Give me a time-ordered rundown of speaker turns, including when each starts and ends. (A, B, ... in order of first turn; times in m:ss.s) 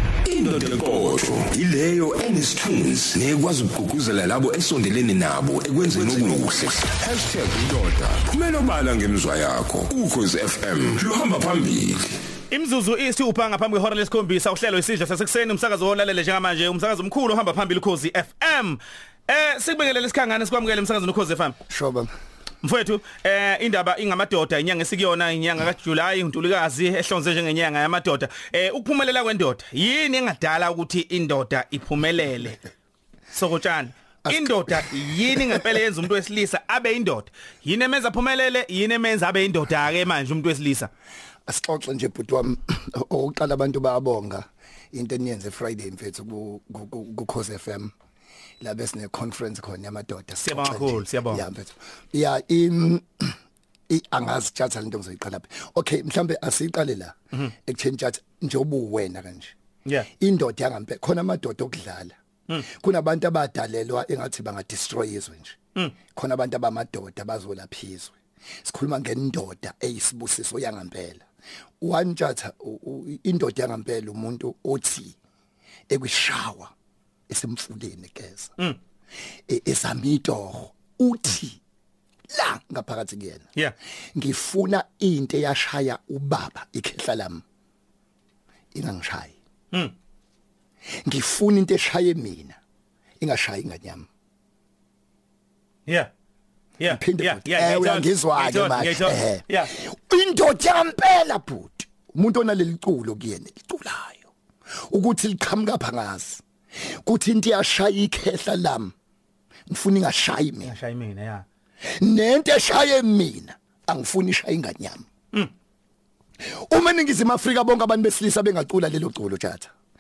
0:00.2-0:12.1 A
0:12.5-0:21.6 B
0:21.7-0:22.1 C
0:22.6-0:32.6 B
0:33.3-0:40.9 B
0:34.2-0:35.6 C
0:41.5-0:47.9 C
0:48.6-0:53.3 C
0:50.4-0:51.5 B
0:53.9-0:57.2 C
0:57.7-0:59.5 C
1:00.2-1:02.2 C
1:02.8-1:05.6 C
1:06.1-1:11.2 C
1:11.8-1:15.2 C
1:15.9-1:16.7 C
1:17.3-1:18.6 C
1:19.5-1:21.6 C
1:22.3-1:23.5 C
1:24.2-1:27.4 C
1:28.7-1:29.3 C
1:31.1-1:32.6 C
1:33.2-1:34.1 C
1:36.8-1:39.7 B
1:36.9-1:44.3 C
1:44.9-1:46.4 C
1:47.0-1:48.9 C
1:49.7-1:50.8 C
1:50.6-1:51.5 B
1:52.0-1:55.0 C
1:56.7-1:59.7 C